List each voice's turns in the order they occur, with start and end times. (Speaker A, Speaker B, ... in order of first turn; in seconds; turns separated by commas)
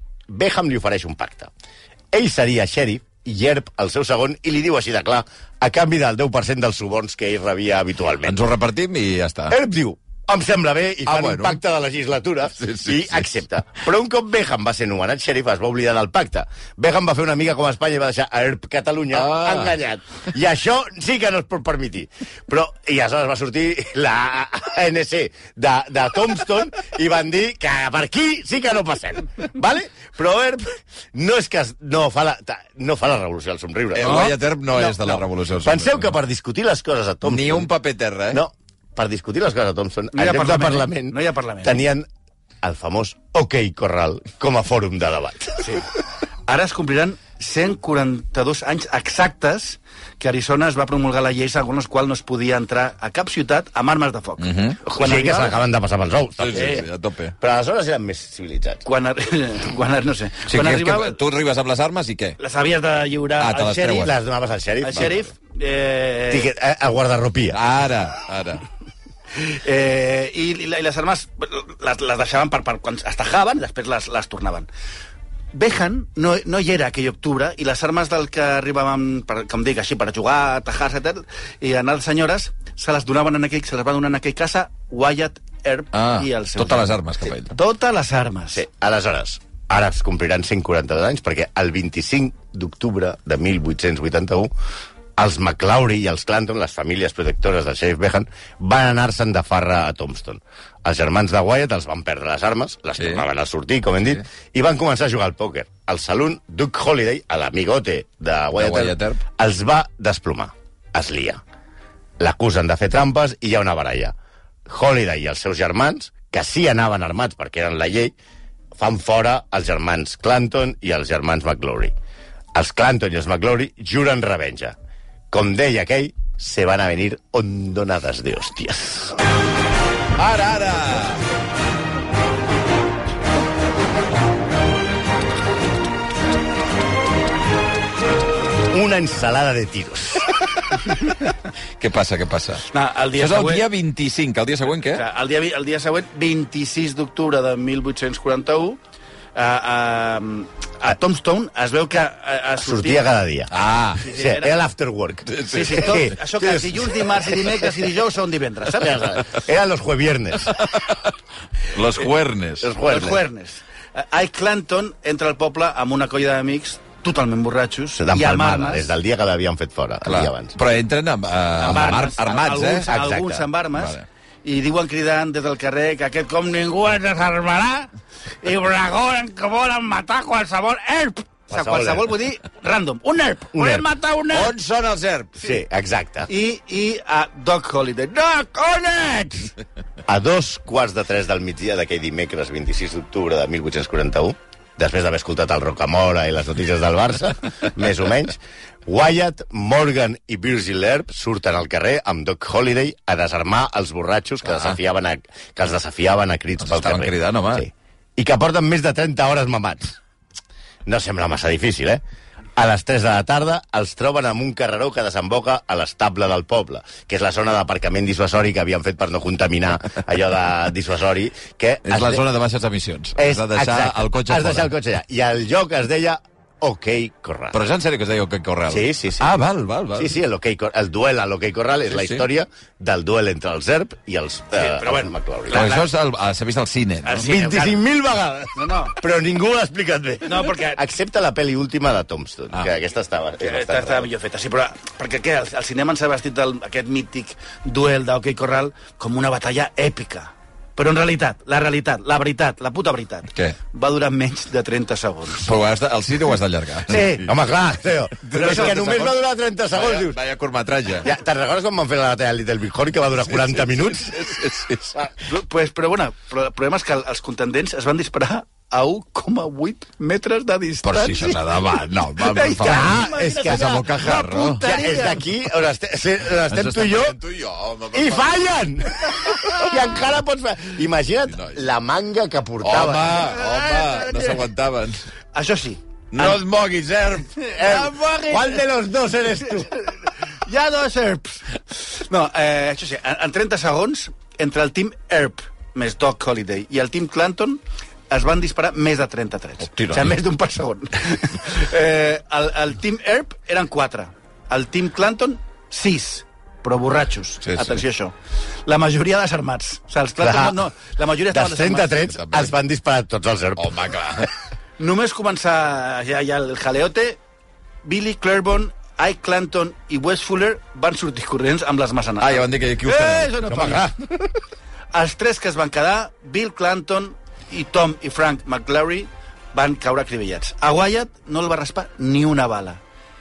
Speaker A: 0.3-1.5, Speaker A: 2.1-8.4, Speaker B: 8.2-9.6, Speaker A: 9.5-37.7, Speaker B: 11.1-11.6, Speaker B: 12.6-13.3, Speaker B: 19.1-19.8, Speaker B: 33.9-36.1, Speaker C: 34.0-34.4, Speaker B: 37.2-38.4, Speaker A: 38.3-42.1, Speaker C: 40.1-41.8, Speaker A: 42.6-45.8, Speaker C: 45.6-45.9, Speaker C: 46.5-55.6, Speaker B: 54.4-54.8, Speaker A: 54.9-56.8, Speaker B: 56.4-57.3, Speaker C: 56.5-56.9, Speaker A: 57.4-58.8, Speaker C: 58.9-61.2, Speaker B: 60.5-62.4, Speaker C: 62.4-64.1, Speaker B: 63.4-64.1, Speaker A: 63.9-65.2, Speaker C: 64.8-66.5, Speaker A: 66.3-67.6, Speaker B: 67.5-68.6, Speaker C: 69.3-74.7, Speaker C: 75.5-88.6, Speaker B: 85.9-87.5, Speaker A: 88.5-94.5, Speaker A: 95.2-111.4, Speaker B: 103.0-103.2, Speaker B: 108.5-109.2, Speaker A: 112.2-114.1, Speaker A: 114.7-118.1, Speaker A: 118.7-121.9, Speaker A: 122.5-124.8, Speaker A: 125.3-129.2, Speaker B: 130.2-131.2, Speaker A: 138.7-140.3, Speaker B: 141.8-145.0, Speaker C: 142.7-143.7, Speaker C: 144.9-148.8, Speaker C: 149.3-153.0, Speaker A: 152.6-153.5, Speaker B: 153.5-154.1, Speaker C: 154.0-154.5, Speaker A: 154.0-157.0, Speaker B: 155.2-156.1, Speaker C: 155.5-159.1, Speaker A: 158.7-160.7, Speaker B: 160.5-161.1, Speaker B: 161.7-162.8, Speaker A: 162.6-163.2, Speaker C: 162.8-168.9, Speaker A: 168.0-170.6, Speaker B: 170.0-172.9, Speaker C: 171.6-177.9, Speaker A: 172.9-173.4, Speaker B: 173.7-174.0, Speaker C: 178.4-184.5, Speaker A: 181.5-182.1, Speaker A: 183.5-183.8, Speaker B: 184.3-185.3, Speaker A: 185.3-186.3, Speaker C: 186.3-189.5, Speaker A: 190.1-209.9, Speaker B: 206.6-207.7, Speaker A: 210.8-212.0, Speaker A: 212.6-222.2, Speaker B: 221.8-224.7, Speaker A: 223.2-227.6, Speaker B: 227.5-230.1, Speaker A: 228.7-229.3, Speaker A: 229.9-235.6, Speaker B: 231.9-232.2, Speaker C: 234.6-235.9, Speaker B: 235.5-237.4, Speaker C: 237.1-237.8, Speaker A: 237.2-244.1, Speaker C: 238.6-238.9, Speaker C: 240.2-240.8, Speaker C: 243.4-255.5, Speaker B: 255.4-257.3, Speaker C: 256.9-257.3, Speaker A: 257.2-260.2, Speaker B: 258.2-259.2, Speaker C: 258.3-259.0, Speaker B: 259.7-261.1, Speaker A: 261.0-264.1, Speaker B: 263.2-264.9, Speaker C: 265.2-271.4, Speaker B: 270.8-274.6, Speaker C: 272.2-275.2, Speaker A: 272.6-277.2, Speaker B: 276.5-278.4, Speaker A: 277.9-283.2, Speaker B: 279.0-279.9, Speaker B: 281.3-281.6, Speaker B: 282.6-285.0, Speaker C: 283.1-284.4, Speaker C: 285.3-286.4, Speaker B: 286.1-287.5, Speaker C: 287.4-288.6, Speaker A: 287.6-289.8, Speaker C: 290.4-308.1, Speaker B: 299.6-300.2, Speaker B: 307.4-307.8, Speaker C: 308.6-312.0, Speaker A: 310.2-310.6, Speaker A: 311.3-314.2, Speaker B: 312.1-312.5, Speaker B: 313.6-314.3, Speaker C: 314.8-317.2, Speaker C: 317.8-323.9, Speaker B: 322.2-323.4, Speaker A: 323.5-324.1, Speaker C: 324.9-332.8